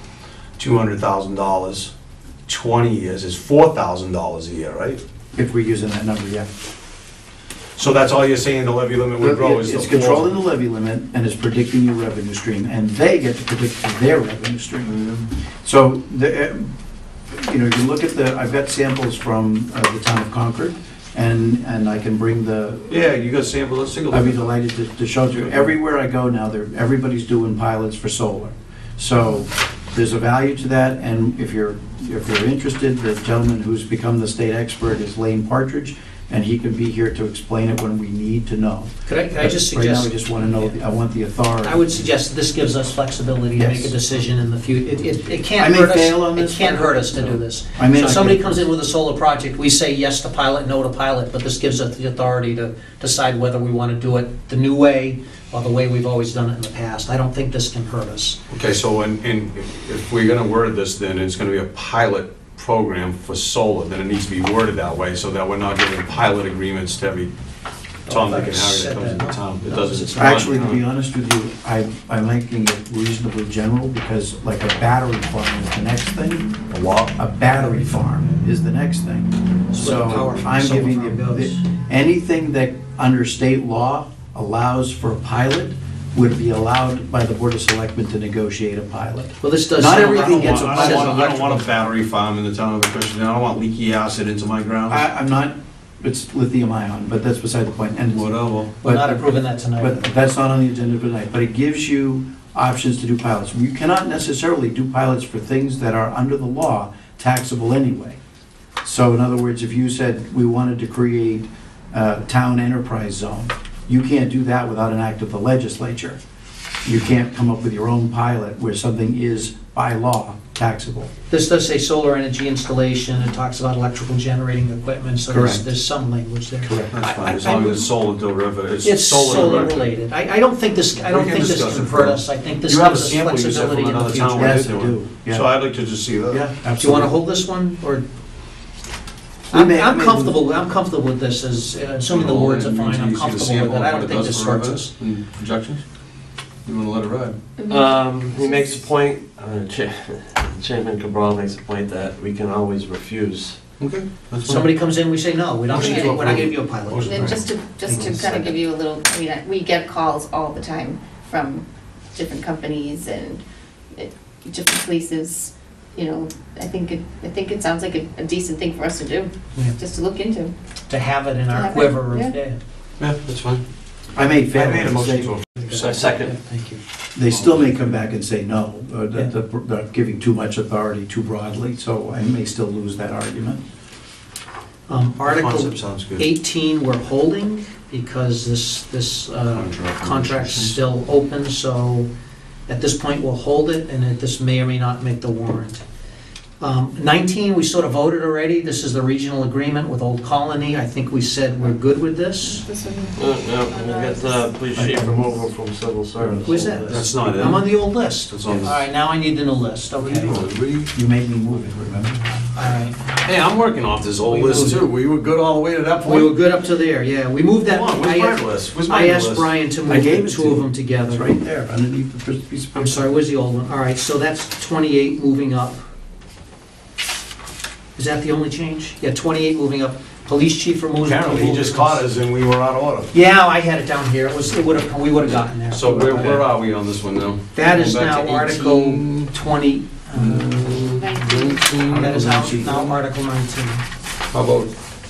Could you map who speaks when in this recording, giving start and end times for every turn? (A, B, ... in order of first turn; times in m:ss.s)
0:00.6-0:01.9 A
0:02.5-0:05.0 A
0:05.4-0:06.5 B
0:07.8-0:10.3 A
0:09.2-0:14.9 B
0:14.8-0:15.2 A
0:15.6-0:16.7 B
0:17.3-0:23.0 B
0:22.9-0:24.4 A
0:24.1-0:42.1 B
0:25.4-0:25.7 A
0:39.1-0:40.8 C
0:41.6-0:58.4 C
0:43.6-0:44.0 B
0:45.6-0:48.6 B
0:58.5-1:07.3 A
1:08.1-1:10.6 C
1:08.1-1:10.8 A
1:10.2-1:16.6 B
1:16.7-1:17.2 A
1:17.2-1:31.2 B
1:19.7-1:21.6 C
1:29.4-1:31.6 C
1:30.0-1:35.1 A
1:34.9-1:38.3 B
1:38.1-1:38.7 A
1:38.8-1:40.1 C
1:38.8-1:48.2 B
1:48.8-1:56.2 B
1:56.8-2:01.1 B
2:01.3-2:07.6 C
2:05.3-2:05.7 B
2:06.6-2:07.9 B
2:06.9-2:09.9 A
2:08.8-2:14.7 C
2:11.0-2:16.4 A
2:14.4-2:15.5 B
2:16.3-2:17.1 B
2:16.8-2:18.0 C
2:19.5-2:20.4 B
2:19.5-2:24.9 C
2:22.1-2:25.8 A
2:26.6-2:27.4 A
2:27.6-2:28.8 D
2:27.7-2:33.6 E
2:33.8-2:34.7 A
2:34.4-2:38.5 C
2:35.7-2:37.6 A
2:35.7-2:36.5 D
2:37.0-2:43.4 D
2:38.0-2:38.4 E
2:43.9-2:50.5 D
2:50.9-2:52.6 C
2:51.5-2:52.3 D
2:53.0-2:53.6 A
2:54.2-2:55.4 B
2:54.2-2:56.1 A
2:55.6-2:56.8 C
2:55.8-2:56.3 E
2:57.2-3:03.6 B
2:57.3-2:58.0 A
3:04.9-3:12.1 C
3:05.2-3:06.3 A
3:09.5-3:10.8 A
3:12.7-3:15.8 C
3:16.6-3:22.6 C
3:22.4-3:24.6 D
3:23.2-3:27.1 E
3:24.7-3:25.4 B
3:26.4-3:30.4 C
3:26.9-3:27.7 A
3:28.3-3:28.8 A
3:30.1-3:30.9 A
3:30.9-3:32.2 B
3:32.5-3:33.3 C
3:33.2-3:36.4 A
3:34.2-3:34.8 C
3:36.0-3:41.4 C
3:37.6-3:39.6 A
3:39.9-3:43.1 B
3:42.7-3:45.8 C
3:48.0-3:52.1 C
3:51.0-3:53.1 A
3:53.1-3:56.5 C
3:55.7-3:59.3 A
3:57.5-4:01.3 C
4:00.1-4:02.3 A
4:01.0-4:01.7 D
4:01.9-4:03.0 B
4:01.9-4:03.8 C
4:04.3-4:04.7 A